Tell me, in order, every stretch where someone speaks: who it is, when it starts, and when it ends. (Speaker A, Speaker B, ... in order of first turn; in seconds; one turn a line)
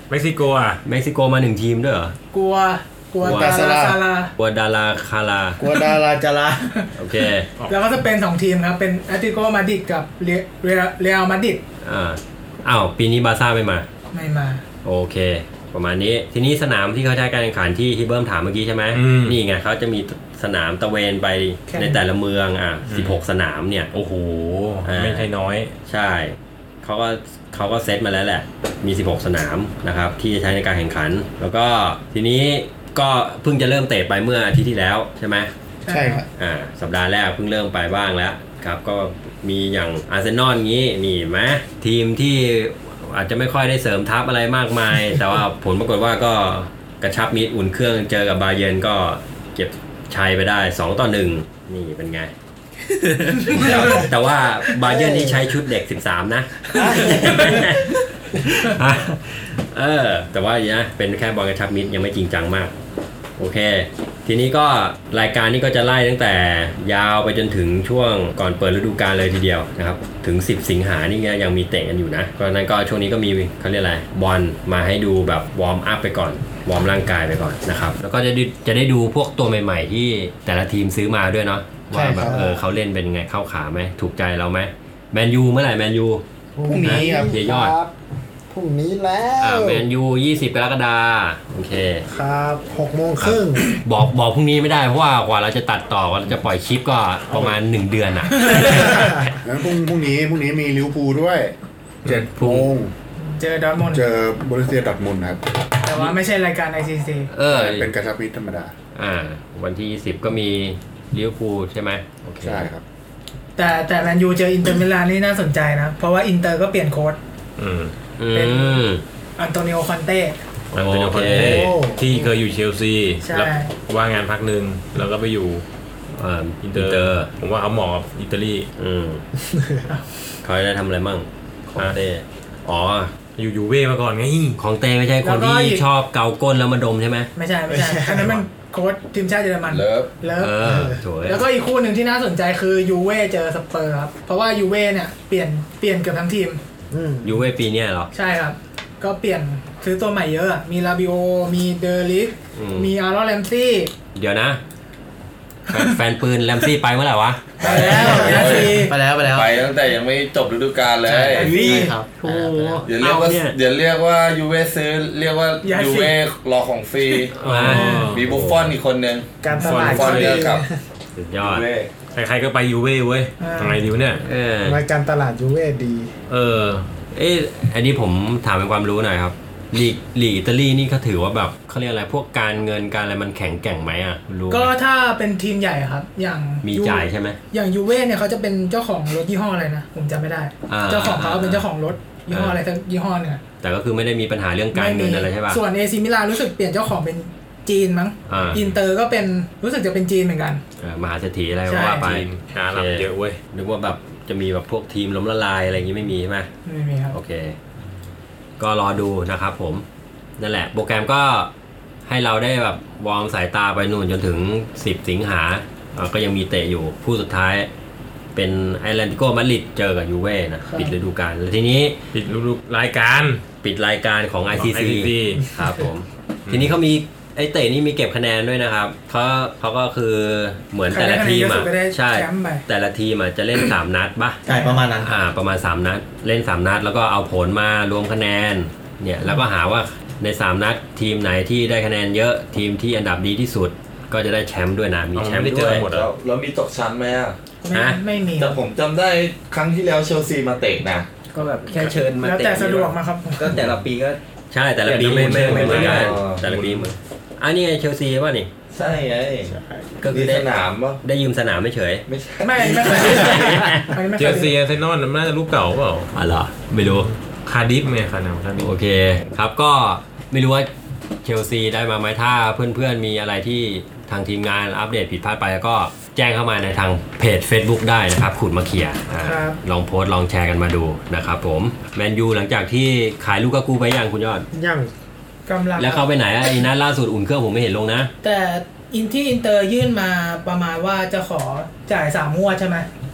Speaker A: 0.1-0.8
Speaker B: 0.8-2.2
Speaker C: 2.3-4.3
Speaker B: 3.2-3.5
Speaker D: 3.2-4.0
Speaker B: 4.4-5.6
Speaker D: 5.6-6.7
Speaker C: 5.7-6.0
Speaker B: 7.0-7.5
Speaker C: 7.7-11.6
Speaker B: 11.8-13.9
Speaker C: 14.1-14.6
Speaker B: 14.8-23.9
Speaker A: 18.9-19.4
Speaker C: 21.7-22.0
Speaker A: 22.9-23.2
Speaker A: 23.9-25.7
Speaker B: 24.8-25.3
Speaker B: 25.9-35.5
Speaker C: 35.9-36.2
Speaker D: 35.9-36.2
Speaker B: 36.4-52.3
Speaker B: 53.5-62.7
Speaker E: 54.8-55.4
Speaker E: 56.8-57.6
Speaker D: 56.8-57.1
Speaker B: 63.4-86.2
Speaker D: 81.9-82.3
Speaker E: 82.2-82.6
Speaker E: 86.6-87.9
Speaker D: 86.7-87.4
Speaker B: 86.8-87.8
Speaker E: 88.5-89.8
Speaker B: 89.4-92.0
Speaker E: 92.1-93.7
Speaker B: 93.2-99.3
Speaker C: 98.3-99.0
Speaker F: 99.4-102.9
Speaker B: 102.3-102.7
Speaker C: 103.3-104.1
Speaker F: 103.9-105.5
Speaker C: 105.8-107.3
Speaker B: 107.3-107.9
Speaker F: 107.5-108.7
Speaker B: 109.0-112.7
Speaker F: 112.4-112.8
Speaker C: 113.6-117.2
Speaker A: 117.6-117.9
Speaker B: 118.2-119.0
Speaker C: 118.3-118.8
Speaker C: 119.4-120.4
Speaker A: 120.7-125.6
Speaker B: 120.7-121.7
Speaker E: 121.2-122.3
Speaker C: 123.2-123.7
Speaker B: 126.1-127.3
Speaker A: 126.6-128.7
Speaker B: 128.8-129.2
Speaker B: 130.4-133.1
Speaker A: 133.4-134.6
Speaker B: 134.6-137.3
Speaker C: 135.2-135.8
Speaker C: 137.4-140.7
Speaker E: 137.7-138.4
Speaker G: 139.7-140.1
Speaker B: 140.4-141.4
Speaker E: 140.6-141.0
Speaker C: 141.2-146.6
Speaker E: 146.9-147.4
Speaker B: 147.2-148.1
Speaker C: 148.1-153.9
Speaker B: 152.6-152.9
Speaker B: 154.2-154.6
Speaker B: 155.7-157.8
Speaker G: 157.6-161.8
Speaker C: 157.6-159.0
Speaker D: 157.8-159.6
Speaker D: 161.1-162.8
Speaker B: 161.4-163.6
Speaker C: 161.4-161.9
Speaker G: 162.8-167.4
Speaker C: 165.6-166.2
Speaker B: 167.3-168.7
Speaker A: 167.4-168.3
Speaker C: 167.7-168.2
Speaker G: 168.1-170.7
Speaker E: 169.4-170.8
Speaker A: 169.6-170.5
Speaker C: 169.6-170.2
Speaker B: 171.2-171.7
Speaker G: 171.4-171.9
Speaker A: 172.1-174.2
Speaker C: 173.4-173.8
Speaker B: 174.2-174.8
Speaker E: 174.6-176.1
Speaker A: 176.3-176.9
Speaker B: 177.1-184.7
Speaker C: 184.5-193.4
Speaker B: 186.6-187.4
Speaker B: 190.7-191.7
Speaker B: 192.3-192.6
Speaker B: 193.6-195.6
Speaker C: 194.7-200.6
Speaker B: 198.3-198.6
Speaker B: 200.8-206.5
Speaker C: 201.7-202.1
Speaker A: 202.0-203.4
Speaker C: 206.7-207.2
Speaker B: 207.1-207.6
Speaker B: 208.6-209.8
Speaker B: 210.4-211.5
Speaker B: 212.1-217.7
Speaker B: 218.3-222.0
Speaker C: 220.7-220.9
Speaker A: 222.1-223.4
Speaker B: 223.6-234.4
Speaker A: 224.6-225.4
Speaker A: 226.5-226.7
Speaker C: 230.9-232.7
Speaker D: 234.5-235.1
Speaker C: 234.5-234.8
Speaker B: 235.0-245.8
Speaker A: 245.2-246.1
Speaker G: 245.7-247.4
Speaker C: 247.6-248.6
Speaker B: 247.7-248.0
Speaker G: 248.3-251.1
Speaker H: 251.3-254.2
Speaker C: 252.2-253.5
Speaker B: 254.5-258.5
Speaker A: 254.9-256.9
Speaker G: 255.2-256.4
Speaker G: 258.7-259.5
Speaker E: 259.5-259.9
Speaker B: 260.0-260.5
Speaker G: 260.1-261.0
Speaker B: 261.0-262.1
Speaker G: 262.1-263.4
Speaker C: 262.4-264.5
Speaker B: 262.9-263.9
Speaker A: 264.2-266.1
Speaker B: 266.1-267.1
Speaker A: 266.8-268.7
Speaker B: 268.6-270.7
Speaker B: 271.2-284.5
Speaker C: 279.2-279.6
Speaker E: 284.5-284.9
Speaker C: 285.5-286.1
Speaker B: 285.8-288.1
Speaker C: 288.2-292.9